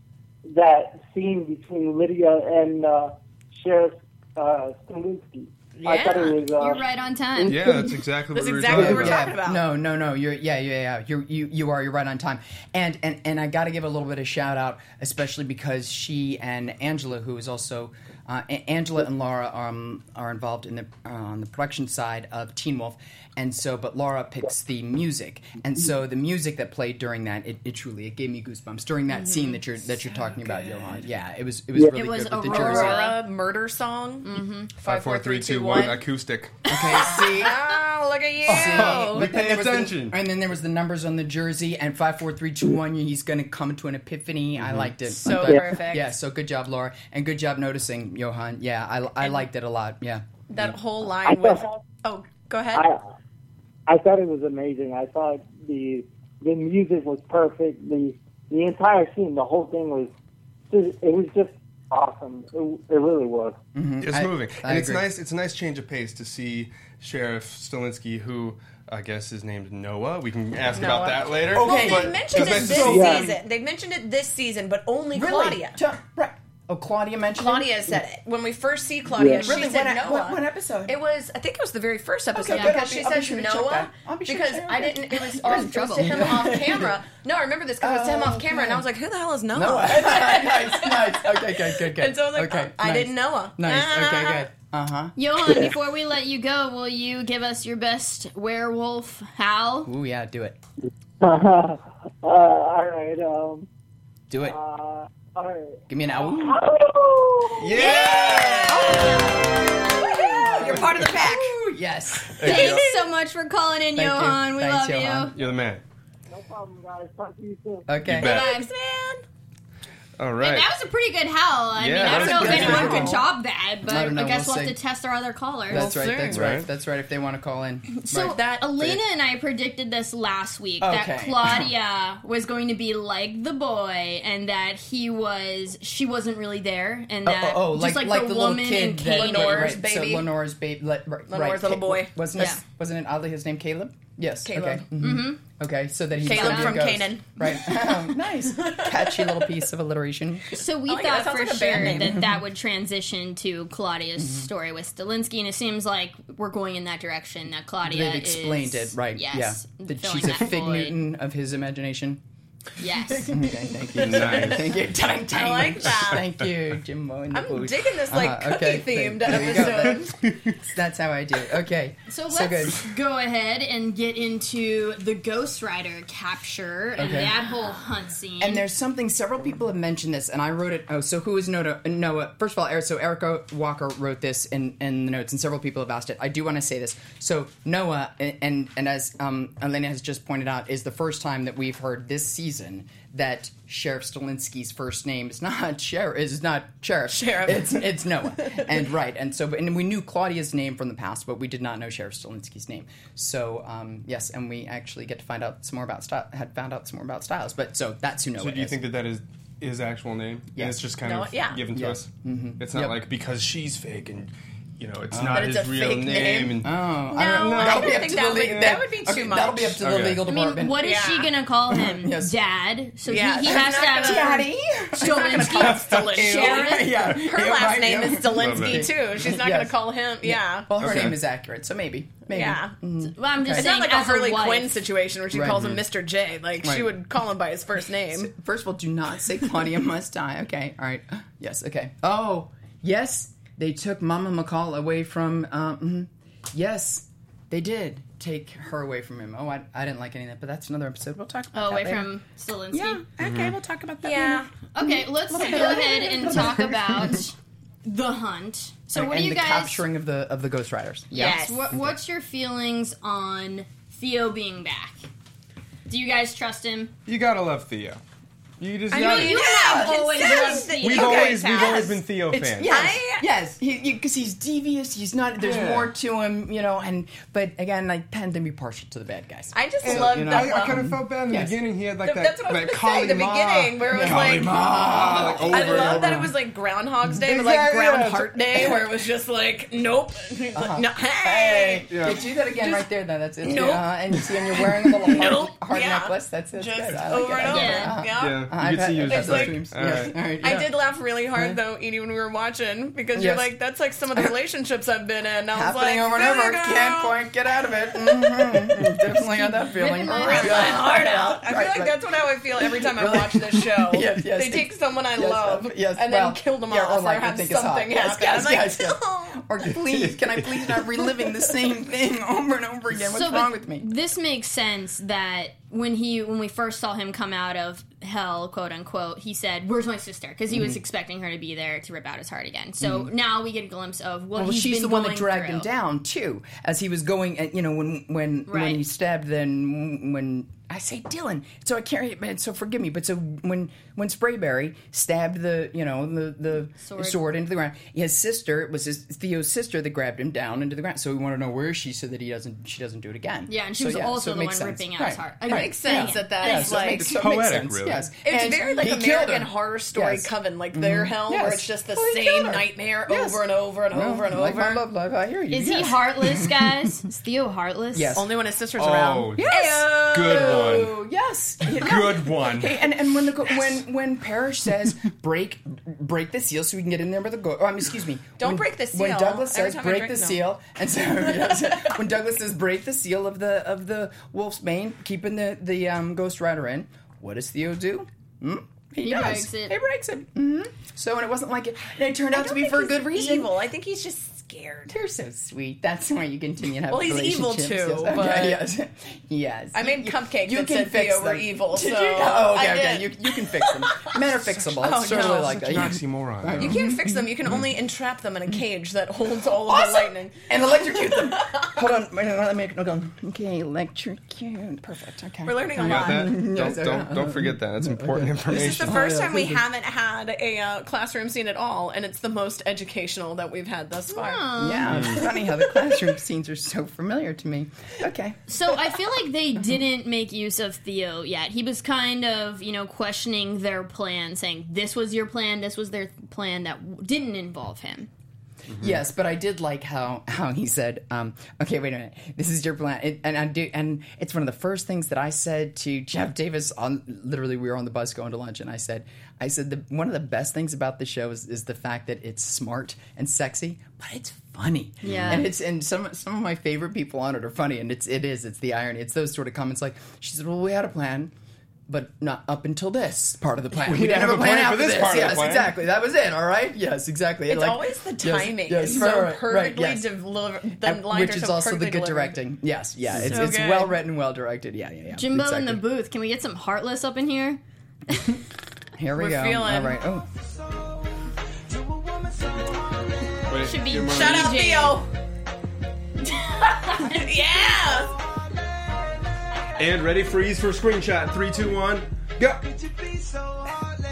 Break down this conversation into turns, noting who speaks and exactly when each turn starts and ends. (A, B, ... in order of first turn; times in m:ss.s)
0:00.5-0:06.8 A
0:05.8-0:06.4 B
0:06.6-0:07.7 C
0:07.4-0:08.0 A
0:07.5-0:09.3 D
0:08.3-0:09.6 B
0:08.7-0:33.1 E
0:30.2-0:30.6 B
0:31.8-0:33.2 C
0:32.5-0:36.0 B
0:34.2-0:34.7 C
0:34.8-0:36.6 D
0:36.7-0:37.6 E
0:36.9-0:37.2 C
0:37.1-0:39.3 B
0:38.4-0:50.2 E
0:38.5-0:40.2 D
0:44.6-0:44.9 D
0:45.1-0:46.1 B
0:45.4-0:45.7 A
0:50.5-0:52.8 B
0:51.2-0:51.7 A
0:52.7-0:53.0 A
0:53.9-1:00.1 A
1:00.7-1:03.6 A
1:03.7-1:05.0 E
1:04.0-1:13.3 D
1:10.7-1:15.8 B
1:11.5-1:13.1 E
1:12.8-1:13.3 A
1:15.1-1:17.9 E
1:17.4-1:34.5 B
1:19.2-1:19.5 A
1:19.4-1:21.0 E
1:22.3-1:27.0 E
1:22.5-1:22.8 C
1:25.4-1:26.3 C
1:27.8-1:28.8 E
1:29.5-1:35.7 E
1:35.2-1:39.9 C
1:39.8-1:40.6 E
1:41.2-1:43.7 A
1:44.3-1:44.6 E
1:44.4-1:47.8 A
1:45.9-1:46.6 E
1:47.6-1:49.0 D
1:47.8-1:51.5 B
1:47.8-1:49.4 C
1:48.7-1:52.8 E
1:52.4-1:52.9 D
1:52.4-1:55.3 C
1:52.5-1:52.8 B
1:53.9-1:55.3 E
1:55.3-1:55.8 D
1:56.3-1:57.9 A
1:57.9-1:58.4 E
1:58.1-1:58.5 D
1:58.1-1:59.2 B
1:58.2-1:58.7 C
2:00.2-2:00.7 D
2:00.4-2:05.9 C
2:01.8-2:03.1 D
2:02.0-2:03.2 B
2:02.0-2:03.2 E
2:03.8-2:04.8 E
2:05.7-2:09.0 E
2:05.7-2:06.5 B
2:06.2-2:06.7 D
2:07.9-2:19.8 C
2:08.1-2:08.6 B
2:10.8-2:11.7 E
2:17.2-2:30.6 E
2:19.1-2:20.3 B
2:21.3-2:22.2 B
2:24.4-2:24.8 B
2:25.0-2:25.4 C
2:26.2-2:27.9 B
2:26.3-2:26.8 C
2:28.5-2:29.5 B
2:30.5-2:41.0 C
2:30.9-2:32.2 B
2:31.8-2:32.4 E
2:34.2-2:34.5 E
2:37.8-2:42.2 E
2:42.8-2:43.5 C
2:43.2-2:52.9 E
2:44.0-2:44.5 B
2:44.0-2:44.7 D
2:45.3-2:46.2 B
2:47.3-2:50.2 B
2:50.2-2:50.5 D
2:52.1-2:58.6 C
2:57.0-2:57.4 E
2:58.4-3:28.8 E
3:17.1-3:17.9 B
3:18.4-3:18.7 B
3:28.4-3:38.8 D
3:30.5-3:30.8 E
3:31.0-3:31.6 B
3:31.7-3:33.0 E
3:35.1-3:35.6 E
3:35.3-3:39.8 B
3:36.6-3:40.9 E
3:39.8-3:40.2 D
3:40.2-3:46.9 C
3:40.8-3:41.3 B
3:41.7-3:42.4 E
3:43.1-3:44.4 B
3:43.4-3:53.7 E
3:45.0-3:51.0 B
3:45.6-3:46.5 D
3:48.3-3:48.9 D
3:50.8-3:51.2 D
3:52.3-3:52.7 B
3:53.0-3:54.8 C
3:53.5-3:58.3 B
3:55.3-3:55.7 E
3:55.5-3:55.8 D
3:56.6-3:56.9 E
3:58.1-4:12.1 E
4:11.5-4:13.0 C
4:12.7-4:17.2 E
4:13.2-4:13.6 D
4:14.0-4:14.5 B
4:14.7-4:17.3 C
4:17.8-4:19.8 C
4:18.9-4:21.4 E
4:21.1-4:21.6 B
4:21.1-4:25.0 C
4:25.9-4:26.9 C
4:27.0-4:28.0 D
4:28.6-4:29.4 D
4:28.9-4:32.0 B
4:29.0-4:31.4 C
4:29.1-4:30.7 E
4:30.8-4:32.9 D
4:32.3-4:41.6 E
4:32.6-4:33.3 B
4:35.4-4:35.9 D
4:39.5-4:40.9 B
4:39.8-4:46.3 D
4:42.0-4:51.9 B
4:43.9-4:46.3 E
4:47.2-4:48.5 D
4:50.5-5:00.7 E
4:51.9-4:52.2 D
4:53.4-4:53.9 B
4:54.5-5:07.1 B
4:57.5-4:57.9 C
4:58.2-5:00.2 D
5:03.1-5:03.5 E
5:05.5-5:11.9 E
5:09.6-5:10.8 C
5:10.1-5:19.4 B
5:12.6-5:23.9 E
5:23.1-5:35.7 C
5:30.5-5:30.8 E
5:32.8-5:33.1 E
5:34.3-6:06.9 E
5:38.5-5:38.8 C
5:46.8-5:47.2 C
5:53.5-5:56.7 C
5:55.5-5:57.1 B
5:56.7-5:58.1 D
5:58.2-6:04.8 B
6:05.5-6:08.2 C
6:07.9-6:08.3 E
6:08.1-6:10.9 B
6:08.8-6:10.9 D
6:09.4-6:33.5 E
6:11.7-6:12.8 D
6:18.4-6:20.4 B
6:29.0-6:29.8 C
6:32.3-6:35.0 B
6:34.9-6:47.3 E
6:36.9-6:38.6 B
6:39.7-6:44.1 B
6:44.8-6:45.8 B
6:45.4-6:46.8 D
6:46.6-6:50.4 B
6:49.6-6:59.6 E
6:51.2-6:51.7 B
6:55.4-6:56.4 B
6:55.7-6:59.1 D
6:58.5-7:04.5 B
7:04.1-7:05.1 C
7:04.6-7:08.4 E
7:04.9-7:05.2 D
7:08.5-7:18.1 C
7:18.8-7:41.3 E
7:35.0-7:35.5 C
7:41.9-7:50.1 E
7:43.8-7:45.7 D
7:47.5-7:52.4 B
7:50.8-7:55.8 E
7:53.1-7:54.0 B
7:55.1-7:57.6 C
7:59.0-8:00.3 E
7:59.2-8:00.0 B
8:03.5-8:04.6 D
8:03.6-8:05.0 C
8:04.0-8:05.1 B
8:06.3-8:07.2 C
8:06.8-8:08.2 B
8:09.8-8:12.6 D